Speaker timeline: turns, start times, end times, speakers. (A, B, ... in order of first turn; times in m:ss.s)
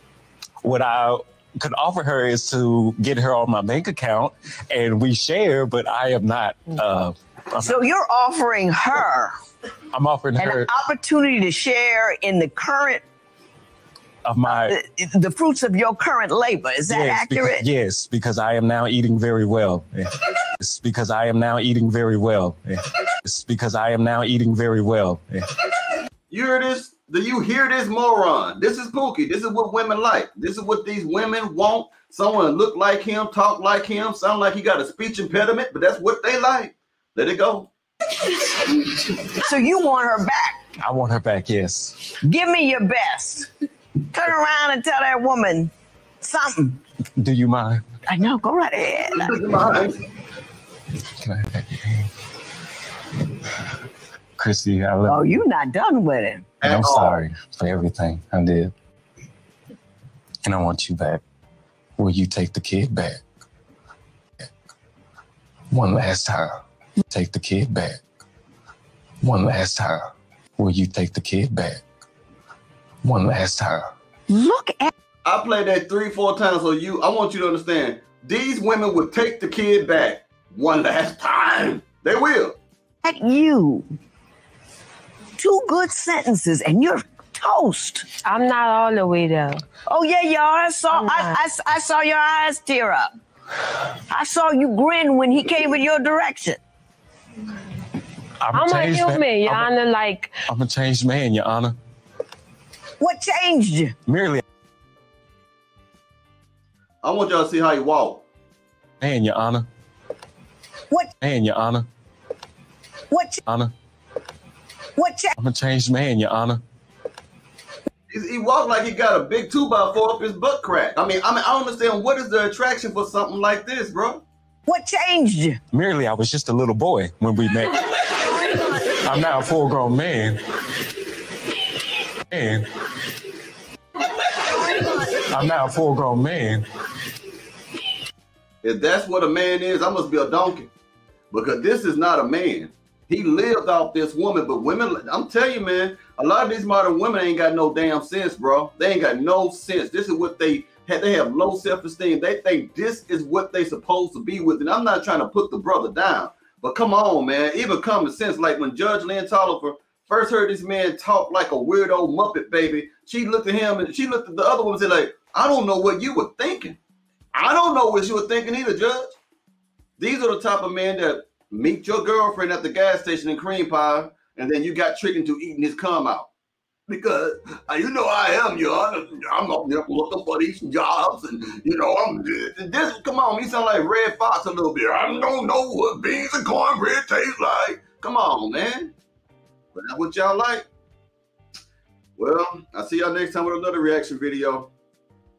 0:00.6-0:07.8 A
0:07.6-0:09.3 B
0:09.9-0:10.7 A
0:10.4-0:13.0 B
0:14.2-0:14.8 A
0:14.5-0:17.6 B
0:16.9-0:25.4 A
0:26.3-0:37.7 C
0:39.3-0:40.6 B
0:40.8-0:42.1 A
0:42.2-0:43.5 B
0:44.1-0:46.8 B
0:47.2-0:47.8 A
0:48.1-0:49.4 B
0:49.2-0:50.0 C
0:51.2-0:52.1 A
0:54.4-0:55.2 A
0:55.0-0:56.5 B
0:56.6-0:57.2 C
0:56.6-0:58.7 A
1:00.4-1:01.2 A
1:02.0-1:03.2 A
1:05.7-1:06.6 A
1:07.1-1:08.0 A
1:09.2-1:10.0 A
1:10.6-1:11.8 A
1:13.0-1:13.9 A
1:14.3-1:14.9 B
1:15.2-1:22.6 C
1:23.0-1:23.9 B
1:25.4-1:28.1 B
1:28.2-1:29.6 D
1:29.9-1:33.1 B
1:30.9-1:31.4 D
1:34.1-1:36.6 B
1:38.4-1:39.7 A
1:38.5-1:40.4 D
1:40.5-1:41.8 A
1:43.0-1:44.0 B
1:44.1-1:44.4 A
1:47.0-1:48.2 C
1:49.0-1:49.7 A
1:51.2-1:51.9 A
1:53.1-1:53.4 B
1:53.5-1:53.7 A
1:55.0-1:55.3 B
1:55.4-1:56.6 A
1:58.1-2:04.2 C
2:04.7-2:05.6 B
2:05.7-2:10.4 A
2:12.3-2:12.7 A
2:14.5-2:16.6 A
2:18.6-2:20.7 C
2:21.3-2:46.8 C
2:47.3-2:49.2 C
2:50.0-2:56.3 C
2:56.9-3:08.9 C
3:09.8-3:10.7 C
3:12.2-3:14.7 C